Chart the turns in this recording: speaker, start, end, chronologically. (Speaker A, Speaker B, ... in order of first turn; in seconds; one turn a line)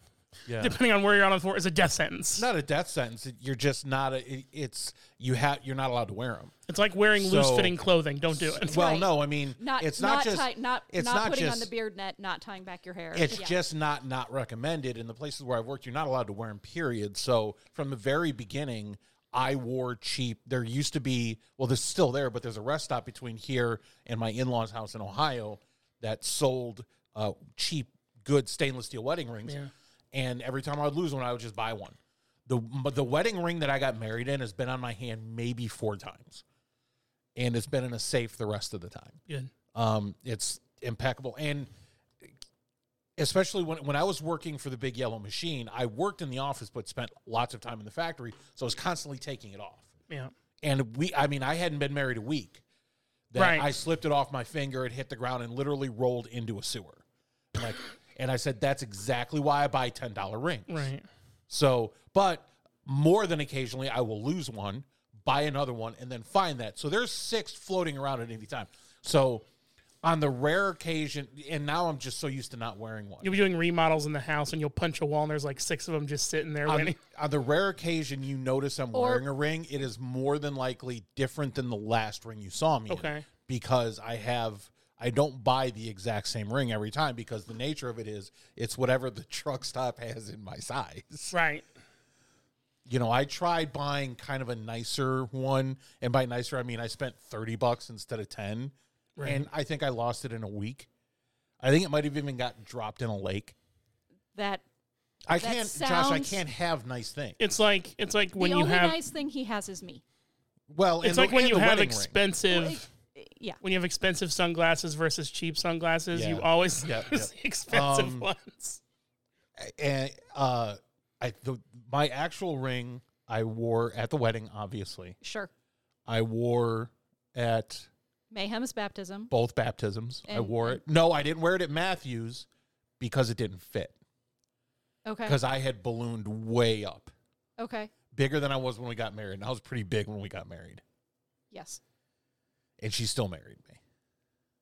Speaker A: 0.5-0.8
Speaker B: 0.6-2.5
Speaker A: 2.4-6.5
Speaker B: 6.7-8.8
Speaker A: 7.1-7.8
Speaker A: 8.3-11.7
Speaker C: 8.7-13.5
Speaker A: 13.1-29.6
Speaker B: 29.4-29.7
Speaker A: 30.1-36.4
Speaker A: 37.4-39.2
Speaker A: 39.7-41.7
Speaker A: 43.2-49.9
Speaker A: 50.6-52.6
Speaker A: 53.3-60.9
Speaker B: 53.3-53.7
Speaker B: 60.7-61.0
Speaker A: 61.5-69.5
Speaker A: 70.0-73.3
Speaker B: 73.2-77.0
Speaker A: 76.7-91.3
Speaker C: 78.9-79.2
Speaker B: 82.9-83.2
Speaker B: 91.3-91.7
Speaker A: 92.8-100.9
Speaker B: 99.2-99.5
Speaker A: 101.6-103.5
Speaker C: 104.3-104.6
Speaker A: 105.3-107.4
Speaker C: 105.3-106.4
Speaker B: 107.4-109.0
Speaker C: 108.3-110.0
Speaker A: 110.7-112.2
Speaker B: 111.0-112.9
Speaker C: 112.5-113.6
Speaker B: 113.6-118.8
Speaker A: 116.1-118.3
Speaker A: 119.6-125.2
Speaker C: 125.2-125.5
Speaker A: 126.1-127.9
Speaker C: 128.3-129.3
Speaker A: 129.3-132.5
Speaker C: 130.3-130.8
Speaker A: 133.0-133.9
Speaker C: 135.0-135.3
Speaker A: 135.2-137.1
Speaker C: 137.6-137.9
Speaker A: 138.1-140.8
Speaker C: 141.5-141.8
Speaker A: 142.8-143.8